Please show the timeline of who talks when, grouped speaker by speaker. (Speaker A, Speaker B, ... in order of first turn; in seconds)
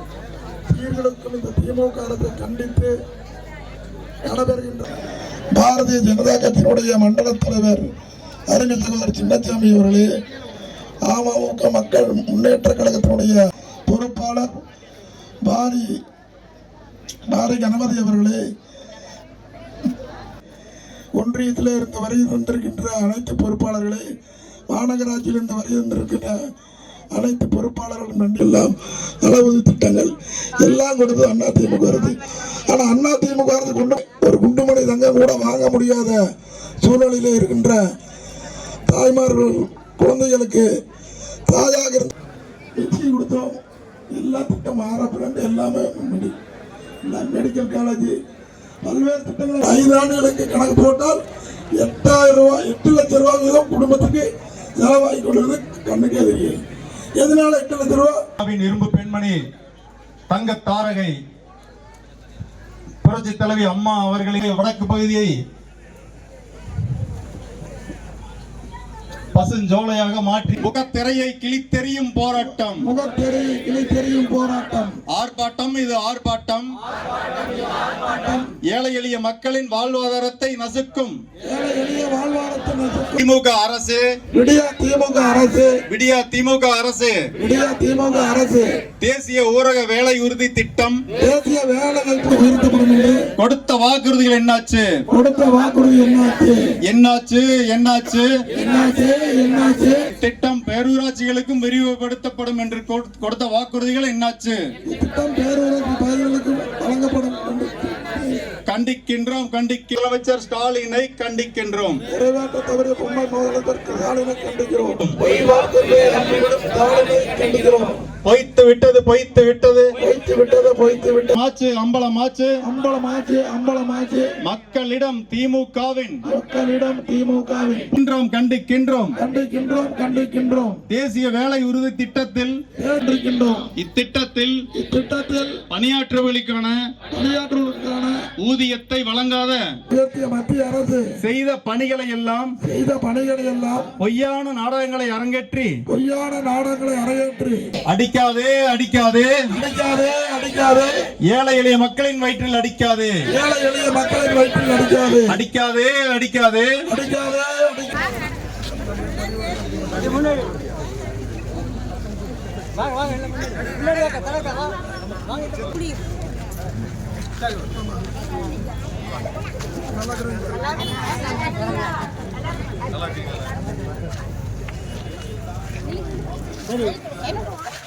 Speaker A: 0.7-2.9, 4.2-4.9, 5.5-7.9, 8.5-10.1, 11.1-14.6, 15.4-15.9, 17.3-18.4, 21.2-24.0, 24.7-26.4, 27.1-36.2, 36.8-37.8, 38.9-40.7, 41.5-42.1, 42.8-43.6, 44.1-46.4, 47.0-48.2, 48.9-51.2, 51.8-56.6, 57.2-58.2, 72.8-75.0, 78.0-78.5, 81.5-83.2, 84.3-85.8, 87.4-88.7, 91.2-93.2, 95.1-96.6, 98.5-100.1, 104.8-108.4, 112.1-118.0, 120.0-121.3, 122.6-124.3, 126.2-127.9, 129.2-130.8, 132.8-133.7, 134.7-135.6, 137.1-138.3, 139.9-141.1, 142.6-143.9, 145.9-147.7, 149.5-151.0, 153.3-155.4, 156.9-158.1
Speaker B: 58.4-59.4, 60.3-61.2, 63.0-65.3, 69.3-72.9, 75.1-76.7, 78.7-81.2, 83.2-84.0, 85.9-87.2, 89.0-91.0, 93.4-94.9, 96.9-98.3, 100.2-104.6, 108.7-112.0, 118.2-119.9, 121.3-122.5, 124.4-126.2, 127.9-129.2, 130.9-132.6, 133.8-134.7, 135.7-136.8, 138.4-139.6, 141.2-142.6, 144.0-145.8, 147.9-149.3, 151.3-153.2, 155.3-156.7